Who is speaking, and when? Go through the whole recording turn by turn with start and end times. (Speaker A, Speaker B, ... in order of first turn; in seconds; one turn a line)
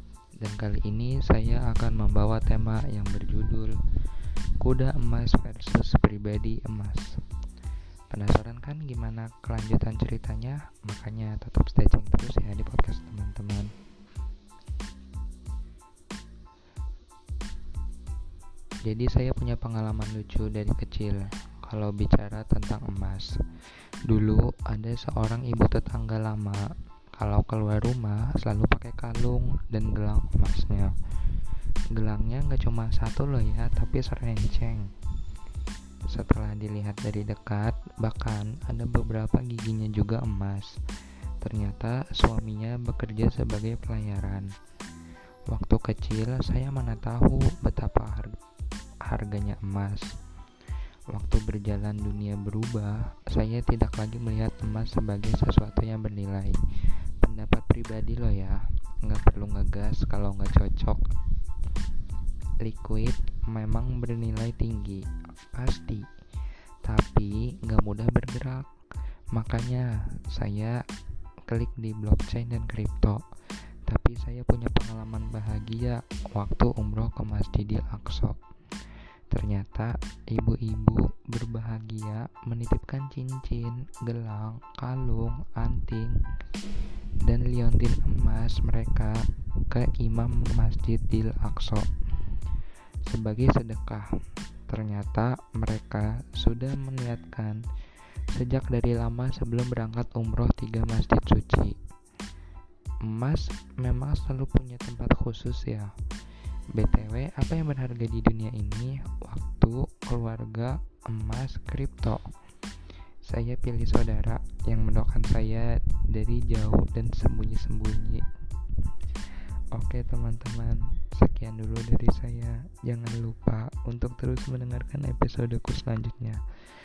Speaker A: 0.4-3.7
Speaker A: 4.6-7.2
Speaker A: 8.1-13.7
Speaker A: 18.8-23.4
Speaker A: 24.0-30.9
Speaker A: 31.9-34.9
Speaker A: 36.1-40.7
Speaker A: 41.4-44.5
Speaker A: 45.5-48.4
Speaker A: 49.0-50.1
Speaker A: 51.1-56.6
Speaker A: 57.2-61.0
Speaker A: 62.6-66.1
Speaker A: 66.8-68.7
Speaker A: 69.3-70.8
Speaker A: 71.5-73.2
Speaker A: 73.9-78.4
Speaker A: 79.3-86.2
Speaker A: 87.2-91.9
Speaker A: 93.0-94.1
Speaker A: 94.7-97.6
Speaker A: 98.3-101.8
Speaker A: 103.0-105.9
Speaker A: 106.7-112.2
Speaker A: 113.2-118.3
Speaker A: 119.7-126.4